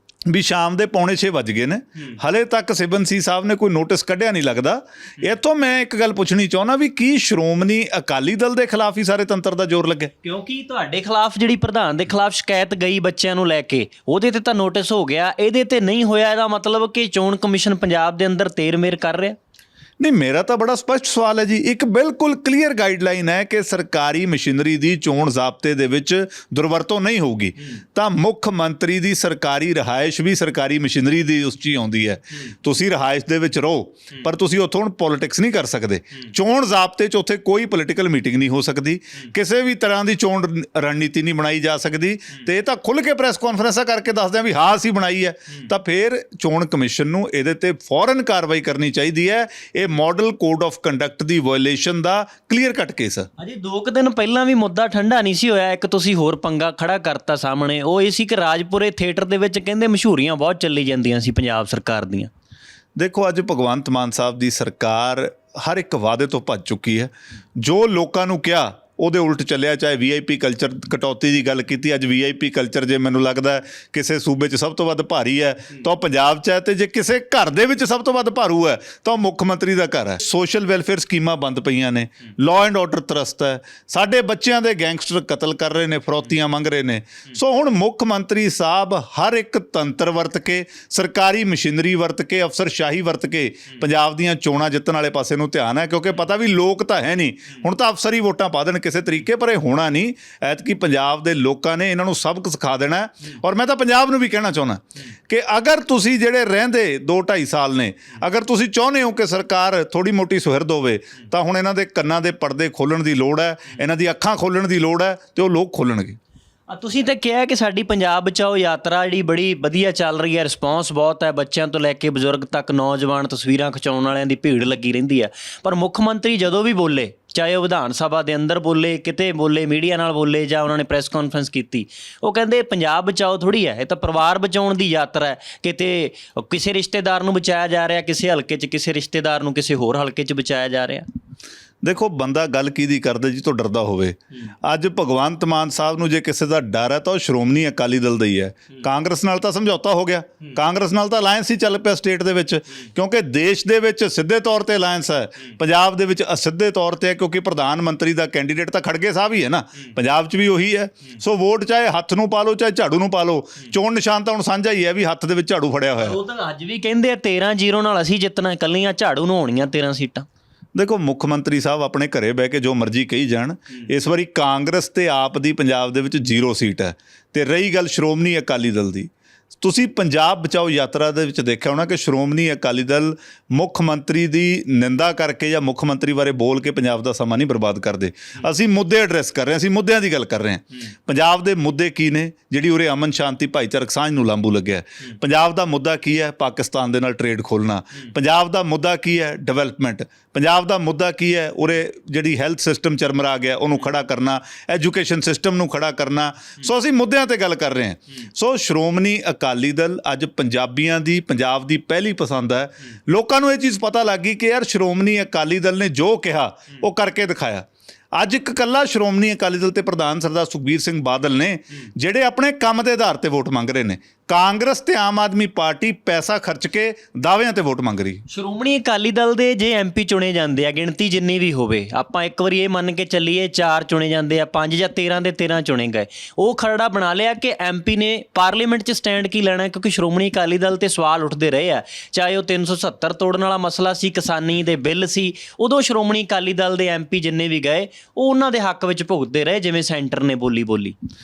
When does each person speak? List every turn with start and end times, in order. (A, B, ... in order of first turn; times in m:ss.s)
0:00.3-0:10.1 A
0:10.2-0:19.4 B
0:20.0-0:53.3 A
0:53.4-1:02.3 B
1:03.0-1:56.2 A
1:56.7-2:21.0 B
2:21.8-2:46.2 A
2:46.0-2:50.2 B
2:50.7-3:48.2 A
3:48.3-4:10.9 B